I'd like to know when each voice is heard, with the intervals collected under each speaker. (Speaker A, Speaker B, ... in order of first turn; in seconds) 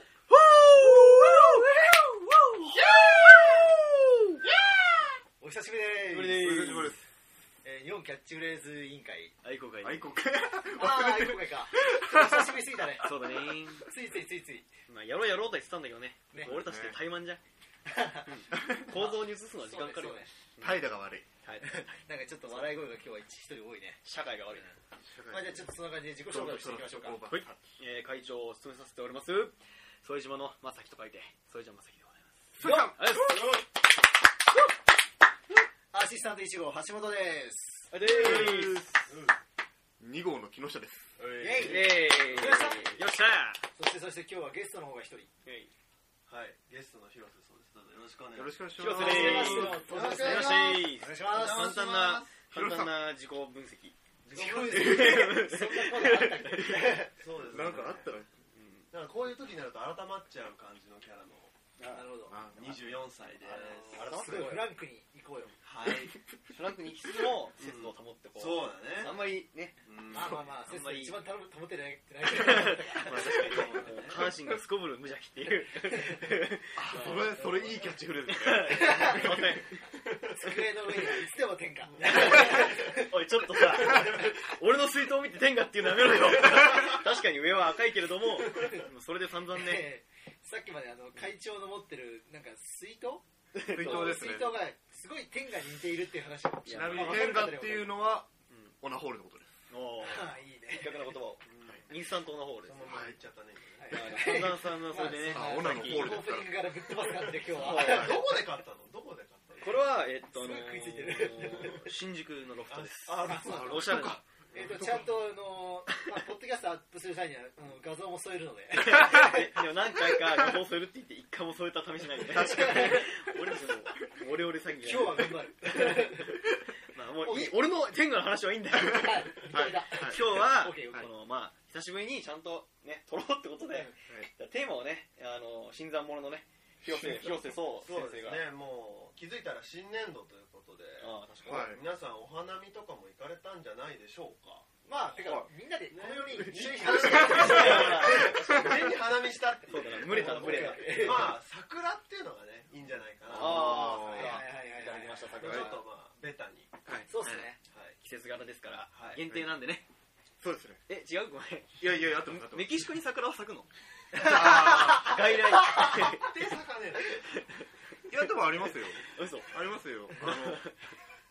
Speaker A: 0.8-1.6, 6.0-7.0, 9.4-10.1, 13.0-13.9, 14.9-17.4, 18.2-20.8, 21.4-22.8, 24.0-24.8, 27.3-33.6, 37.9-39.1, 41.4-43.7, 45.5-45.7, 48.7-54.0, 54.6-57.0, 58.5-58.9, 61.8-62.7, 63.4-64.8, 66.5-71.3, 72.2-77.3, 78.3-79.8, 82.0-89.9, 93.5-94.2, 96.7-97.3, 99.7-102.9, 103.9-106.3, 107.5-108.2, 109.6-114.2, 118.7-138.5, 141.0-141.8, 146.8-148.7, 149.6-151.4, 153.3-155.8, 156.9-159.9, 160.9-166.3, 169.0-169.6, 170.2-170.8
Speaker B: 2.9-3.6, 6.4-7.1, 9.8-12.5, 16.4-17.0, 18.5-18.9, 20.6-21.3, 25.0-25.7, 26.2-27.6, 32.6-33.4, 38.0-38.8, 40.0-41.2, 48.4-49.9, 51.4-53.0, 57.5-58.3, 62.3-63.0, 73.1-74.6, 76.8-79.5, 93.7-94.6, 96.7-99.5, 102.8-103.2, 105.2-106.6, 113.5-115.3, 122.5-123.1, 129.5-131.1, 136.8-137.6, 141.4-141.8, 153.3-154.4, 155.4-155.8, 156.9-157.1, 160.4-160.8, 161.8-162.9, 164.2-165.2, 168.1-170.6
Speaker C: 5.4-6.6, 7.6-9.3, 10.8-14.7, 17.9-20.3, 21.6-24.0, 25.3-27.3, 32.6-33.0, 35.9-38.2, 41.4-43.0, 43.7-45.3, 48.9-51.7, 54.3-57.1, 61.9-62.4, 63.4-65.6, 70.1-74.2, 78.7-79.2, 80.2-83.1, 83.8-84.1, 88.5-88.8, 89.5-98.1, 100.0-101.1, 103.8-108.3, 110.3-111.8, 113.2-113.8, 114.5-119.6, 122.3-123.0, 124.8-126.4, 127.2-127.6, 128.8-131.1, 144.9-148.7, 150.0-151.4, 153.6-155.6, 157.1-157.6, 164.2-165.1
Speaker D: 33.3-33.6, 38.2-39.4, 41.2-42.6, 46.3-52.3, 54.2-55.4, 57.2-58.1, 58.9-61.5, 62.5-64.2, 65.6-66.2, 67.6-70.5, 73.4-74.3, 82.1-82.6, 101.5-101.9, 102.6-104.5, 107.7-110.0, 112.7-115.0, 137.8-144.7, 145.9-154.0, 155.2-156.8, 157.7-158.0, 158.9-159.2, 165.9-167.3